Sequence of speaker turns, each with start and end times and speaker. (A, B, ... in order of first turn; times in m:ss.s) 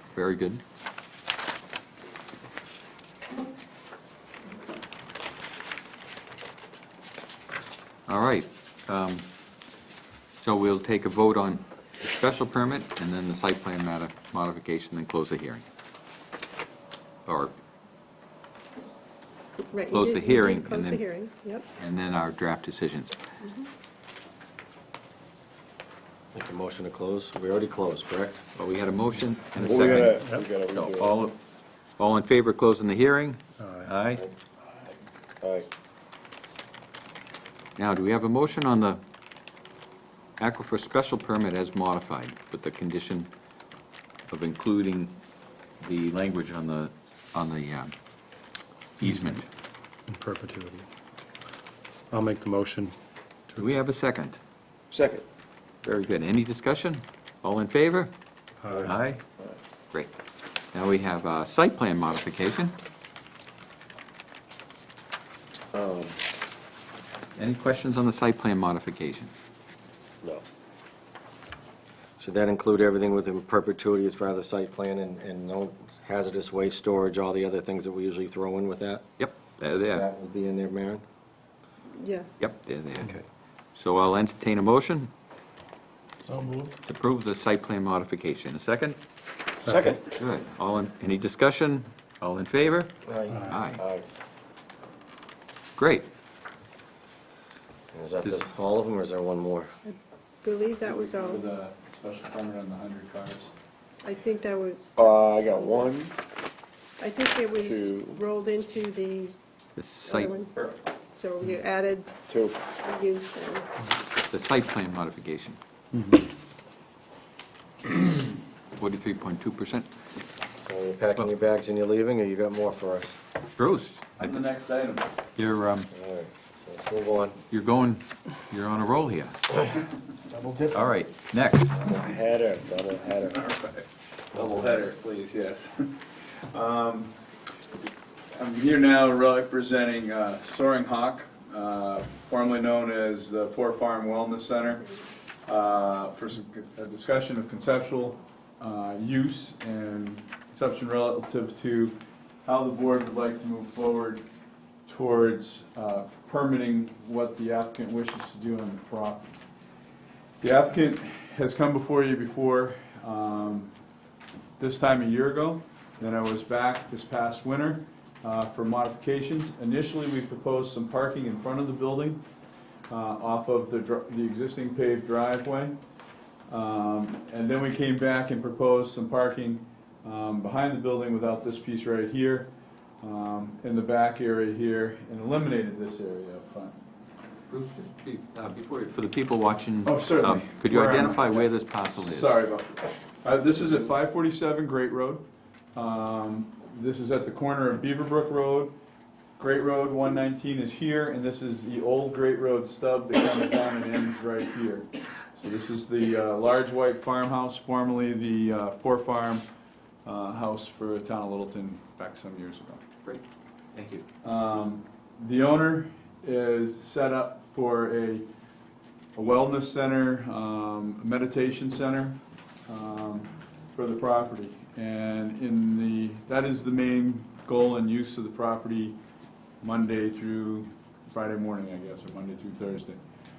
0:00.1-0:00.6 A
0:08.1-0:09.2 A
0:10.4-0:15.6 A
0:17.2-0:17.5 A
0:19.6-0:21.6 B
0:19.9-0:21.0 A
0:21.8-0:23.1 A
0:23.4-0:23.7 B
0:26.3-0:28.4 C
0:28.6-0:31.4 A
0:29.6-0:31.1 D
0:29.8-0:30.5 E
0:32.0-0:34.2 A
0:33.6-0:33.9 E
0:37.8-0:39.0 A
0:40.4-0:43.3 A
0:44.3-0:45.2 A
0:45.8-0:47.9 A
0:49.0-0:49.4 A
0:49.0-0:49.4 E
0:50.1-0:50.9 E
0:52.1-0:52.9 E
0:53.5-0:53.8 E
0:53.6-0:54.4 A
0:54.9-0:55.2 D
0:55.8-0:58.1 A
0:58.6-0:58.9 E
0:58.8-0:59.2 A
1:00.7-1:02.7 A
1:05.7-1:06.1 C
1:07.4-1:09.3 A
1:12.2-1:19.0 C
1:19.2-1:20.1 A
1:19.9-1:21.0 C
1:22.0-1:22.3 B
1:22.4-1:23.2 A
1:23.8-1:25.1 A
1:26.2-1:26.7 E
1:26.8-1:29.0 A
1:29.6-1:29.9 E
1:29.7-1:30.0 D
1:30.2-1:32.9 A
1:33.1-1:34.0 C
1:33.3-1:33.6 E
1:33.5-1:33.8 A
1:35.8-1:36.1 A
1:37.9-1:39.7 C
1:39.8-1:41.4 B
1:40.8-1:43.5 F
1:44.0-1:45.9 B
1:45.0-1:46.1 D
1:47.0-1:49.3 B
1:47.6-1:48.2 D
1:49.8-1:50.7 A
1:50.0-1:50.5 B
1:51.1-1:52.1 B
1:52.3-1:52.6 D
1:52.7-1:53.7 B
1:54.3-1:55.6 A
1:55.9-1:56.2 E
1:58.8-1:59.9 A
2:00.6-2:03.2 C
2:03.6-2:04.4 A
2:04.2-2:05.1 F
2:05.4-2:05.9 A
2:05.9-2:07.4 C
2:07.5-2:09.5 A
2:10.4-2:10.7 E
2:10.7-2:11.8 A
2:11.8-2:13.4 D
2:13.3-2:16.0 F
2:16.5-2:17.2 F
2:18.3-2:34.2 F
2:34.9-2:39.3 F
2:40.4-2:43.7 F
2:44.6-2:52.2 F
2:52.9-2:55.8 F
2:56.5-3:06.8 F
3:07.5-3:12.3 A
3:09.8-3:18.8 F
3:19.4-3:29.4 F
3:30.0-3:32.8 F
3:33.7-3:34.0 A
3:34.2-3:38.3 F
3:39.2-3:49.0 F
3:49.6-3:53.0 F